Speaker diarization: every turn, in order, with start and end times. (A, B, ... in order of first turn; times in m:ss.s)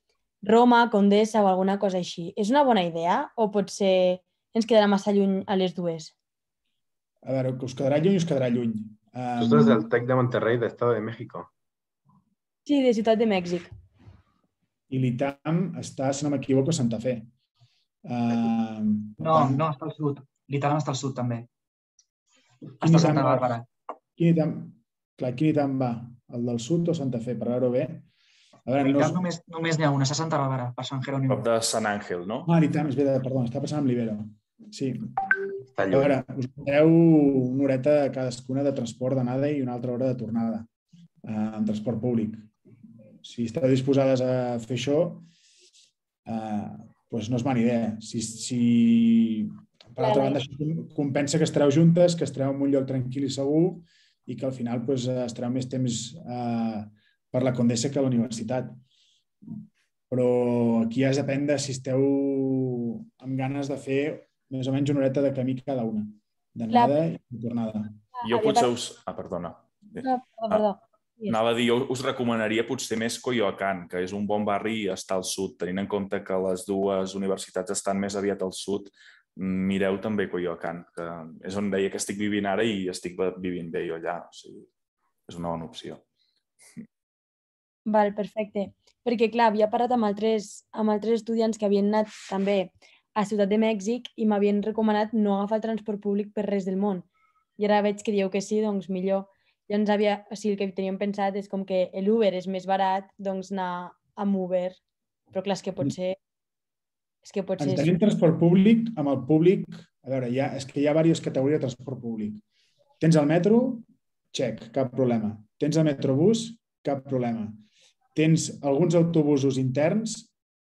0:00.4-0:06.1 A
0:07.2-0:09.9 B
0:09.4-0:11.5 C
0:12.7-0:13.7 A
0:14.9-0:17.3 B
0:18.0-0:19.6 B
0:19.2-0:21.5 D
0:22.8-0:23.7 D
0:22.8-0:23.5 B
0:24.2-0:28.1 B
0:28.7-0:29.2 B
0:28.8-0:31.5 D
0:31.3-0:32.5 E
0:32.5-0:35.2 B
0:35.7-0:36.2 C
0:35.9-0:40.7 B
0:41.2-0:42.5 B
0:43.2-0:45.2 B
0:46.3-0:58.8 B
0:50.0-0:50.4 A
1:00.1-1:08.0 B
1:06.7-1:07.0 A
1:08.2-1:08.7 A
1:08.2-1:10.7 E
1:10.0-1:11.4 A
1:11.3-1:24.7 E
1:25.3-1:26.0 E
1:27.9-1:44.8 A
1:45.3-1:46.2 A
1:47.2-1:48.0 A
1:47.6-1:52.4 B
1:53.0-1:57.6 B
1:58.2-2:00.3 B